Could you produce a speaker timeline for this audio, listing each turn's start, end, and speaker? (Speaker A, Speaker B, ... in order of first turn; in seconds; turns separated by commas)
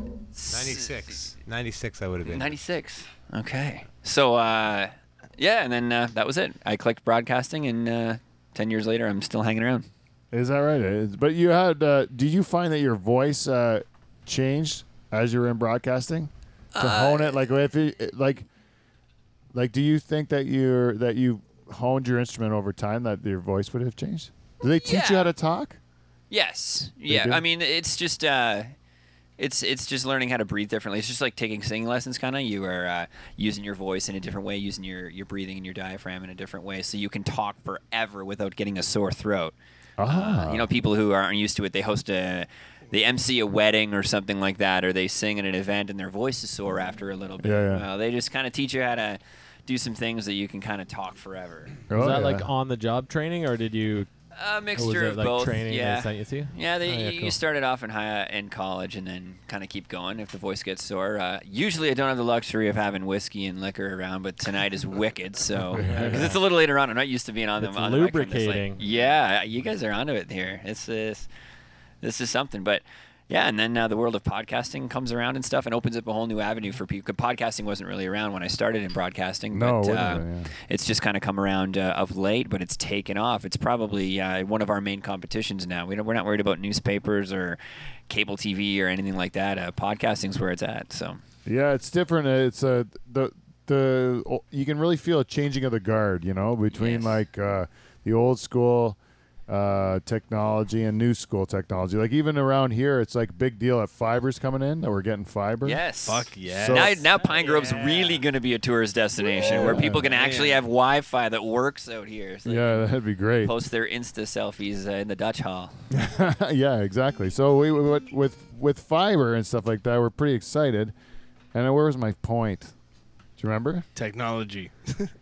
Speaker A: 0.3-1.0, Speaker B: 0.5-2.6, Speaker A: 2.2-9.9, Speaker C: 10.3-18.5, Speaker A: 16.8-17.4, Speaker C: 19.5-25.8, Speaker A: 24.8-25.3, Speaker A: 26.3-28.7, Speaker C: 27.1-27.4, Speaker A: 29.4-39.5, Speaker C: 40.0-40.7, Speaker A: 40.1-51.8, Speaker C: 47.4-47.9, Speaker C: 51.9-52.5, Speaker D: 51.9-54.1, Speaker A: 54.3-71.3, Speaker D: 54.8-57.4, Speaker C: 65.7-66.4, Speaker D: 65.8-66.4, Speaker D: 67.6-68.8, Speaker A: 72.0-91.2, Speaker C: 79.5-80.5, Speaker C: 91.5-99.0, Speaker A: 96.7-97.2, Speaker C: 99.5-105.8, Speaker A: 105.6-112.9, Speaker E: 106.0-108.2, Speaker C: 106.5-107.0, Speaker E: 109.2-110.6, Speaker C: 109.4-110.1, Speaker C: 112.5-113.5, Speaker A: 113.4-115.7, Speaker C: 115.9-120.9, Speaker C: 121.5-122.7, Speaker C: 123.4-123.9, Speaker E: 124.0-125.1